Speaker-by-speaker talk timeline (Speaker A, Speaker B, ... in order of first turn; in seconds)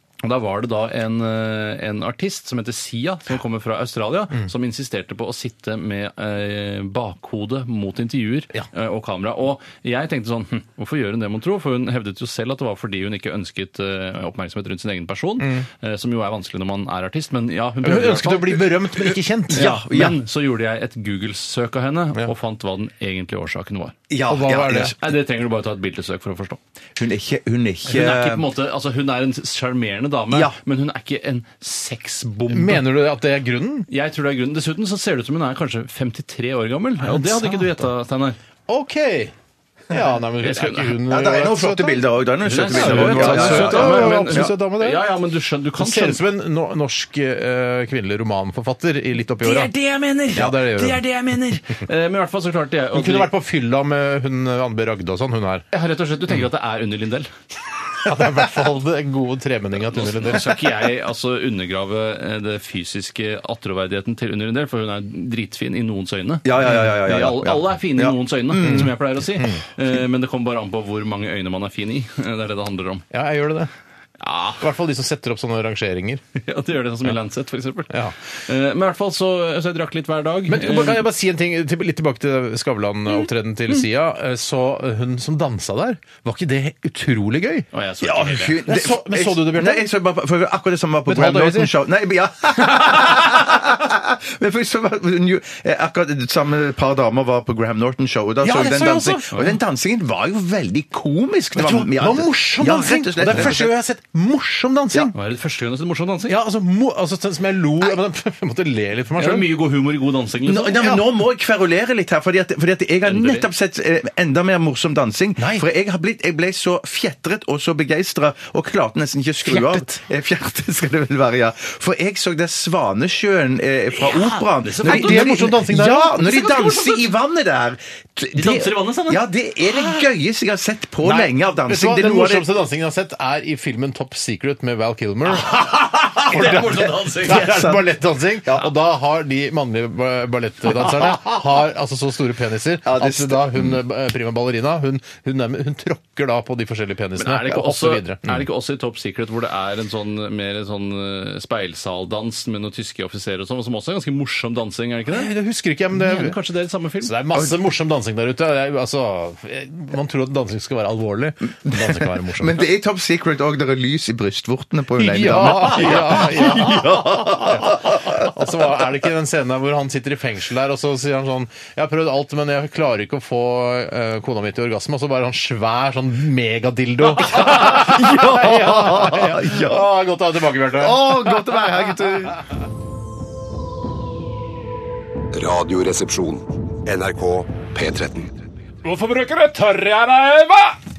Speaker A: 0.2-18.7, 19.5-23.9, 25.0-26.6, 27.9-32.9, 33.9-38.4, 40.4-40.9, 42.4-46.2, 49.4-53.3, 55.7-57.3, 59.9-73.0, 74.2-74.6, 76.4-81.0, 87.7-88.6, 105.1-106.3, 109.2-110.9, 113.0-113.5, 123.9-125.4, 126.2-127.0, 128.3-129.2, 135.4-137.5, 147.2-155.3, 155.9-157.2
Speaker B: 15.4-15.6, 17.8-19.7, 24.3-24.9, 32.5-33.9, 37.0-37.9, 38.7-39.3, 39.9-42.0, 42.7-45.0, 45.8-49.7, 50.3-51.0, 52.9-55.6, 58.0-60.5, 68.6-69.6, 73.1-73.7, 74.6-76.2, 77.9-78.1, 80.5-87.7, 88.7-89.9, 91.1-91.7, 98.4-99.3, 101.5-105.1, 106.3-109.5, 115.4-115.7, 119.5-120.0, 124.8-126.4, 131.0-148.4, 155.1-156.4, 157.0-162.6, 165.0-181.5, 188.8-190.7
Speaker C: 19.5-20.2, 24.1-24.9, 27.0-28.5, 30.3-30.6, 41.1-44.5, 66.4-68.9, 88.0-103.7, 110.4-132.5, 137.2-137.9, 142.8-143.8, 161.6-168.3, 177.1-179.9, 180.7-182.4
Speaker D: 185.3-188.3